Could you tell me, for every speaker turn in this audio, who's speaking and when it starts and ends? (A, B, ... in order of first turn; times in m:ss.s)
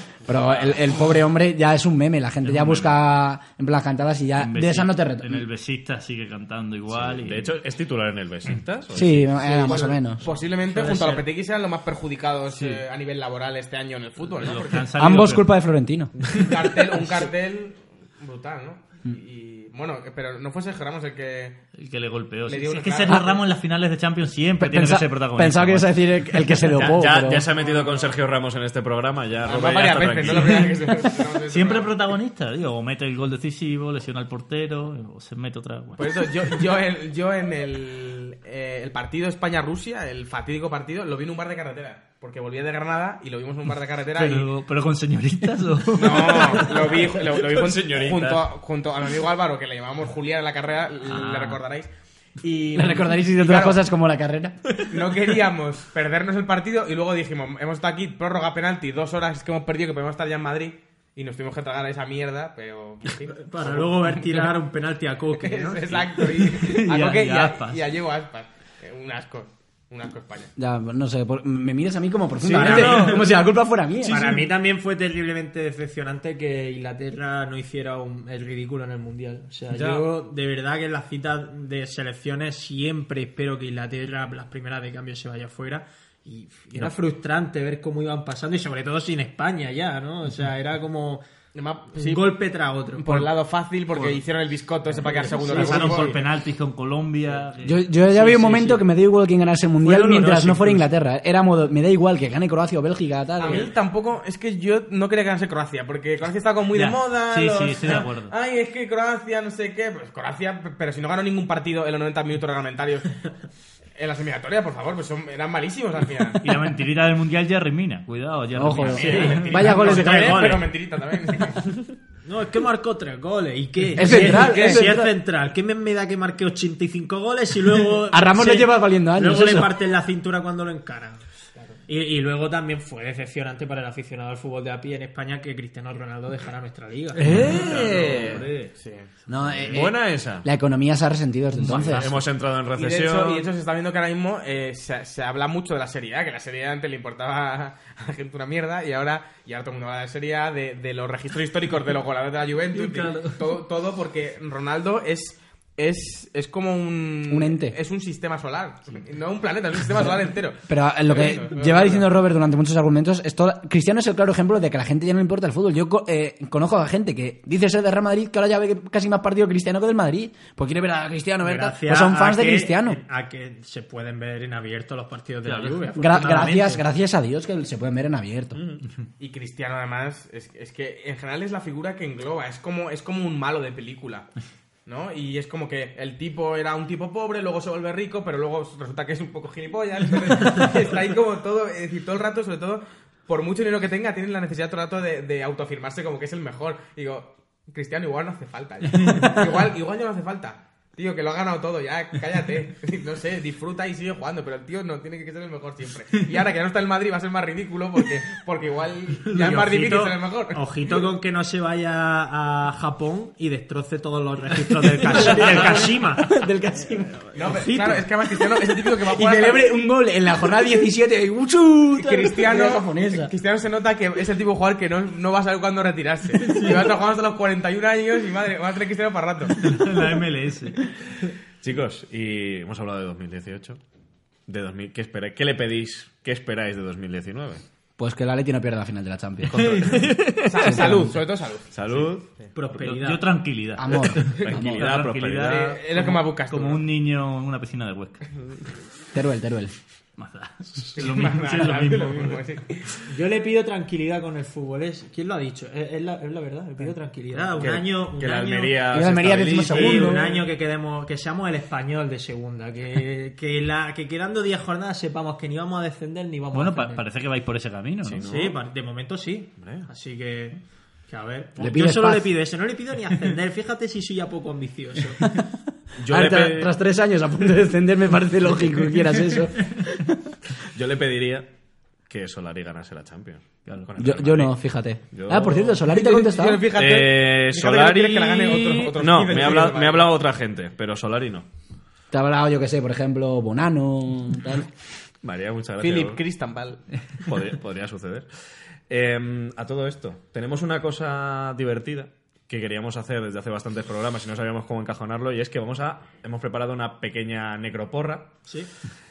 0:00.2-0:05.4 A
0:02.4-0:02.9 B
0:04.4-0:07.5 B
0:06.9-0:09.8 C
0:08.9-0:10.2 A
0:09.4-0:14.8 D
0:10.8-0:11.2 E
0:14.4-0:15.5 B
0:15.0-0:16.1 A
0:16.3-0:21.6 D
0:21.8-0:26.0 B
0:22.5-0:23.4 D
0:23.1-0:23.3 A
0:24.6-0:27.5 A
0:26.7-0:30.7 C
0:27.4-0:28.2 D
0:29.4-0:31.9 D
0:30.2-0:30.7 B
0:31.5-0:36.5 B
0:36.0-0:44.5 D
0:44.1-0:46.9 B
0:45.9-0:51.9 D
0:46.8-0:48.4 C
0:51.1-0:51.6 B
0:52.4-0:53.8 D
0:52.7-0:54.7 A
0:54.8-1:04.5 D
1:03.3-1:06.1 E
1:05.4-1:10.5 D
1:06.4-1:07.8 B
1:10.6-1:14.5 A
1:12.4-1:13.3 E
1:12.5-1:13.0 C
1:12.8-1:13.1 B
1:14.0-1:31.2 E
1:19.7-1:20.0 C
1:31.5-1:32.3 D
1:31.9-1:33.3 E
1:33.0-1:36.2 D
1:35.1-1:36.2 E
1:35.5-1:38.3 B
1:37.6-1:43.7 A
1:38.3-1:38.7 E
1:39.8-1:40.7 E
1:43.4-1:53.2 D
1:46.7-1:48.3 B
1:54.0-1:56.4 D
1:56.4-1:59.6 B
1:58.5-2:00.6 A
1:58.9-2:01.6 D
1:59.0-2:00.6 E
2:02.2-2:11.2 E
2:03.9-2:05.1 A
2:04.0-2:04.8 D
2:08.1-2:09.7 A
2:11.9-2:17.4 E
2:17.2-2:18.5 C
2:17.2-2:18.7 B
2:18.8-2:19.1 D
2:19.3-2:22.2 A
2:19.4-2:19.8 B
2:19.7-2:20.5 C
2:21.6-2:22.0 B
2:21.6-2:23.5 C
2:22.7-2:42.1 D
2:32.7-2:33.4 B
2:37.3-2:37.8 A
2:40.7-2:53.0 A
2:51.4-2:56.8 E
2:55.4-2:56.7 B
2:56.0-2:58.6 A
2:58.5-2:58.8 C
2:59.2-3:04.3 D
3:04.8-3:30.6 D
3:29.2-3:36.4 E
3:35.0-3:37.5 A
3:37.3-3:39.7 D
3:37.4-3:38.0 E
3:39.0-3:43.3 A
3:41.9-3:49.6 D
3:49.6-3:50.8 B
3:51.6-3:53.8 C
3:54.5-3:57.6 C
3:58.0-4:00.1 A
3:59.5-4:00.1 B
3:59.5-4:01.0 C
4:00.4-4:02.4 D
4:00.6-4:01.2 A
4:01.7-4:02.3 C
4:02.5-4:03.3 E
4:02.8-4:08.3 B
4:03.8-4:04.9 A
4:04.2-4:05.7 C
4:05.4-4:06.8 D
4:09.1-4:09.7 A
4:10.2-4:12.4 B
4:10.9-4:13.0 D
4:13.1-4:18.9 E
4:17.6-4:20.4 C
4:18.9-4:20.4 A
4:19.5-4:27.0 E
4:26.5-4:28.2 B
4:28.0-4:28.6 C
4:28.2-4:35.4 E
4:29.6-4:29.9 C
4:31.6-4:32.3 A
4:36.0-4:36.7 C
4:36.0-4:40.3 A
4:40.7-4:41.5 C
4:42.1-4:44.6 C
4:44.0-4:46.7 A
4:45.1-4:45.8 C
4:45.8-4:50.1 D
4:46.7-4:51.5 C
4:52.1-4:54.7 A
4:55.2-4:56.2 C
4:55.8-4:56.8 D
4:57.2-4:58.3 C
4:58.9-5:08.3 C